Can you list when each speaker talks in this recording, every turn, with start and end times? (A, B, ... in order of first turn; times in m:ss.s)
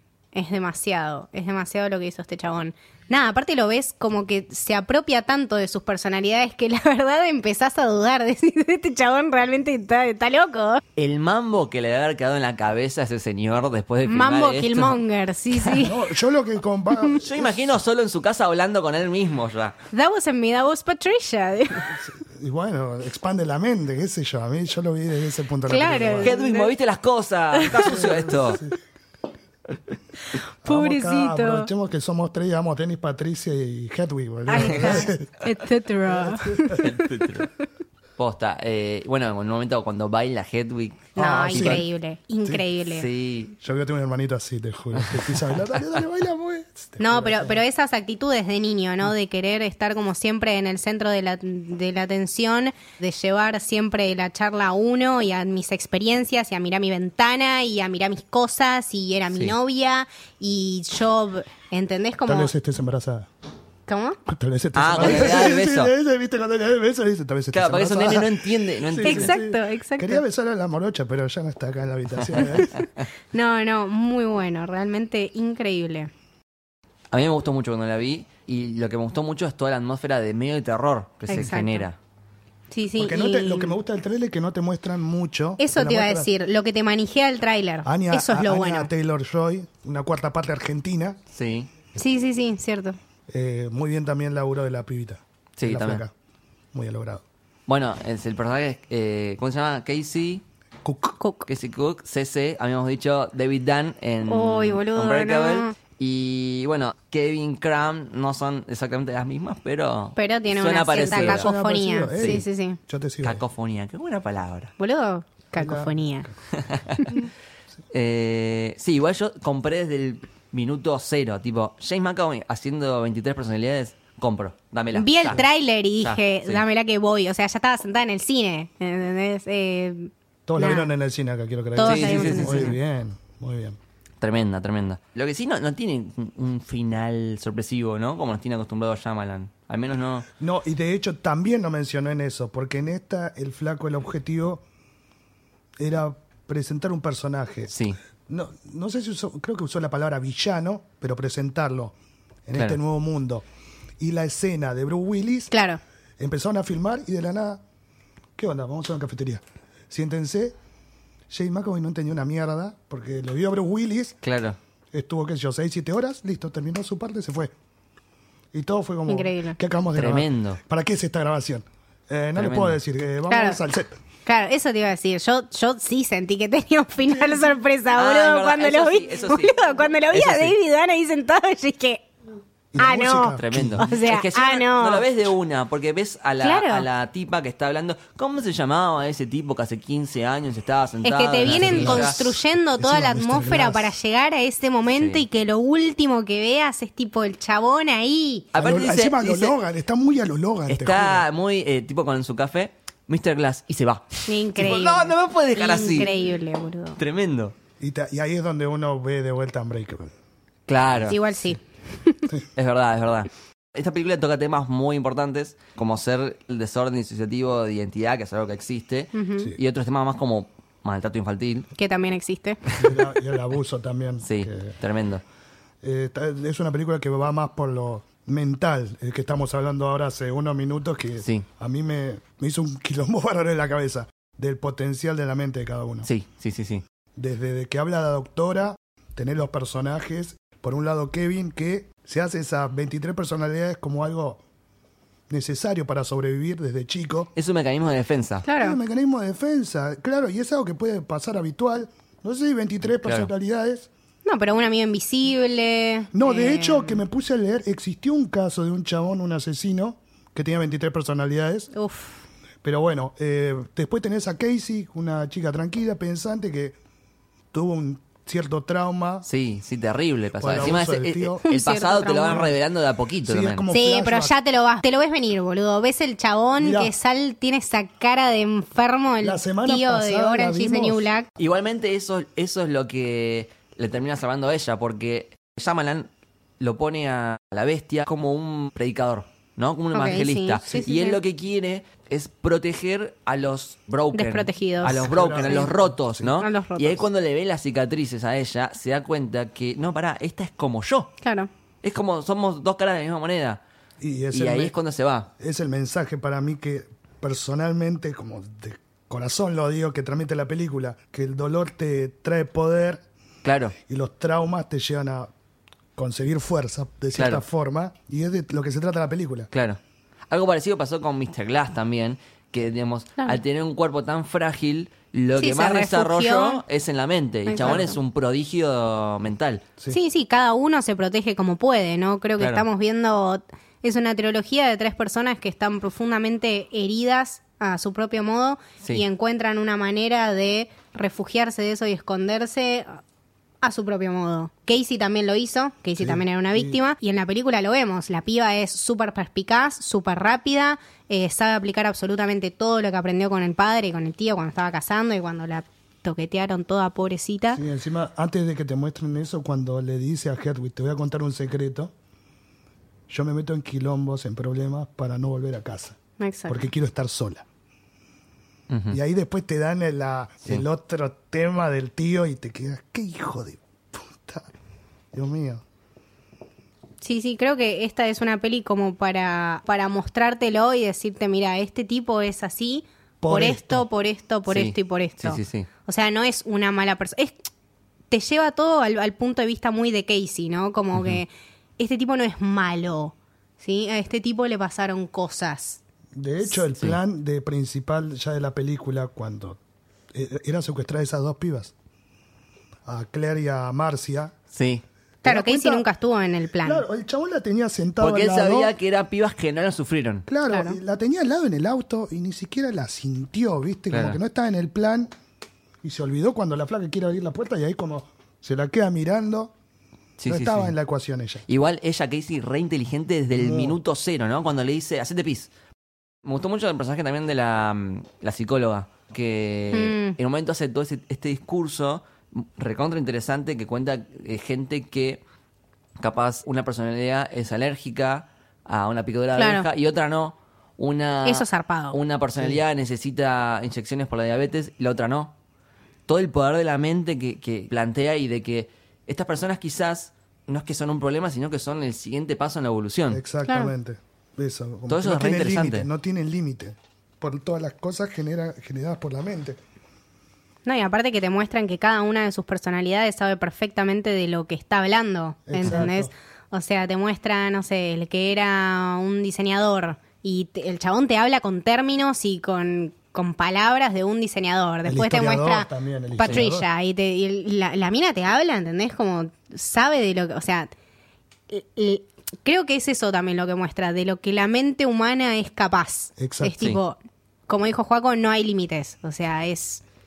0:00.3-0:10.8 A
0:11.0-0:15.0 B
0:14.1-0:16.0 A
0:15.8-0:17.8 C
0:17.2-0:19.7 B
0:19.9-0:22.0 A
0:21.9-0:26.4 C
0:25.7-0:26.7 A
0:26.2-0:28.6 B
0:27.5-0:28.1 A
0:27.7-0:28.8 C
0:30.3-0:31.7 A
0:30.6-0:35.4 C
0:34.5-0:37.0 A
0:34.6-0:35.1 B
0:36.1-0:36.8 C
0:36.8-0:37.5 B
0:38.2-0:41.8 B
0:41.2-0:41.8 C
0:41.2-0:43.1 A
0:42.9-0:43.5 B
0:43.6-0:47.6 C
0:45.0-0:45.7 B
0:47.0-1:02.5 A
1:02.3-1:03.3 C
1:03.9-1:04.2 A
1:04.3-1:12.7 C
1:04.8-1:05.9 B
1:07.5-1:09.4 B
1:09.0-1:10.2 A
1:12.2-1:13.0 B
1:13.3-1:16.1 A
1:17.1-1:22.0 B
1:21.3-1:21.9 A
1:22.7-1:23.8 A
1:23.0-1:26.3 C
1:25.6-1:28.9 A
1:27.8-1:31.2 C
1:31.3-1:31.7 B
1:32.0-1:33.0 A
1:33.3-1:36.1 C
1:35.6-1:36.0 B
1:36.7-1:37.2 C
1:37.7-1:40.4 B
1:40.8-1:41.2 C
1:41.2-1:41.5 A
1:41.5-1:51.5 B
1:44.2-1:45.8 A
1:50.2-1:52.8 A
1:51.0-1:53.4 C
1:52.2-1:52.4 B
1:53.2-1:54.7 B
1:54.8-1:56.3 A
1:55.6-1:56.0 C
1:56.6-1:57.2 B
1:57.0-1:57.3 A
1:57.9-2:05.4 B
2:04.9-2:10.9 A
2:06.0-2:06.6 B
2:10.5-2:13.8 C
2:11.8-2:12.8 A
2:11.8-2:12.8 B
2:14.2-2:20.3 B
2:20.4-2:24.6 C
2:25.8-2:27.7 C
2:27.7-2:28.0 B
2:28.3-2:31.9 C
2:32.5-2:33.4 C
2:32.5-2:32.8 B
2:34.0-2:35.5 C
2:35.5-2:35.8 A
2:36.2-2:37.6 C
2:38.4-2:40.6 C
2:41.3-2:44.2 C
2:44.2-2:44.6 B
2:44.9-2:47.5 C
2:48.5-2:54.0 C
2:49.1-2:49.6 A
2:50.0-2:50.6 B
2:52.4-2:52.8 B
2:53.3-2:53.6 A
2:54.2-3:02.1 A
2:58.0-2:59.6 B
3:00.1-3:00.6 B
3:02.7-3:03.9 C
3:02.8-3:05.1 A
3:03.3-3:12.2 B
3:06.4-3:06.9 A
3:11.0-3:18.5 A
3:11.4-3:14.0 C
3:14.9-3:15.2 B
3:18.5-3:19.6 B
3:18.6-3:21.2 C
3:20.7-3:26.1 B
3:24.3-3:27.0 A
3:27.0-3:27.6 B
3:27.8-3:30.1 C
3:30.7-3:31.2 B
3:31.1-3:32.3 A
3:31.1-3:31.5 C
3:32.6-3:41.7 B
3:39.1-3:39.5 A
3:41.8-3:42.6 A
3:42.8-3:44.8 C
3:42.8-3:43.0 B
3:44.2-3:45.2 B
3:45.8-3:56.1 C
3:51.2-3:51.5 B
3:56.0-3:56.8 B
3:57.2-4:04.4 C
4:05.3-4:07.3 C
4:07.4-4:08.5 B
4:08.4-4:08.8 A
4:08.6-4:13.9 C
4:13.0-4:13.3 B
4:14.2-4:17.0 A
4:16.1-4:21.7 C
4:21.7-4:22.2 A
4:22.6-4:26.8 C
4:27.5-4:29.2 C
4:29.2-4:33.7 B
4:30.4-4:31.4 C
4:31.4-4:32.5 A
4:32.3-4:32.6 C
4:33.2-4:34.3 C
4:33.7-4:41.3 A
4:36.6-4:36.9 C
4:39.2-4:41.1 C
4:41.4-4:46.1 B
4:46.6-5:01.1 B
4:49.9-4:51.2 A
4:54.1-4:55.6 A
4:54.8-4:56.3 C
4:56.4-4:57.0 A
5:01.2-5:01.5 A
5:01.8-5:03.6 B
5:04.0-5:04.7 C
5:04.3-5:05.3 B
5:05.4-5:13.0 C
5:13.4-5:13.8 B
5:13.9-5:15.3 C
5:16.0-5:19.5 C
5:17.2-5:17.4 B
5:19.5-5:19.8 B
5:20.3-5:29.6 B
5:25.3-5:26.6 A
5:27.5-5:28.0 A
5:29.9-5:43.0 A
5:32.4-5:32.6 B
5:43.6-5:57.6 A
5:46.0-5:46.8 C
5:57.5-6:01.9 C
6:03.1-6:06.0 C
6:06.2-6:06.6 A
6:06.5-6:07.4 C
6:08.7-6:09.0 B
6:08.9-6:14.5 C
6:15.1-6:15.6 C
6:17.0-6:27.4 A
6:23.2-6:23.9 C
6:24.5-6:25.7 B
6:28.1-6:35.8 A
6:30.9-6:31.2 B
6:36.1-6:39.6 C
6:40.1-6:41.7 C
6:42.9-6:44.3 C
6:44.5-6:44.8 B
6:45.2-6:45.9 C
6:45.2-6:46.8 A
6:46.6-6:48.7 C
6:48.0-6:50.3 B
6:50.3-6:55.1 C
6:50.5-6:50.8 A
6:53.9-6:54.2 B
6:55.8-6:59.5 C
7:00.2-7:00.7 B
7:00.3-7:01.4 C
7:01.5-7:05.5 B
7:03.3-7:03.8 C
7:06.2-7:15.2 B
7:09.7-7:10.2 A
7:16.0-7:25.3 B
7:19.4-7:19.7 A
7:21.2-7:22.0 A
7:26.1-7:33.2 B
7:33.1-7:39.6 C
7:33.5-7:33.7 A
7:34.9-7:35.9 B
7:40.6-8:00.7 A
7:45.5-7:46.1 C
7:54.8-7:56.7 C
8:01.5-8:09.8 A
8:06.2-8:06.6 C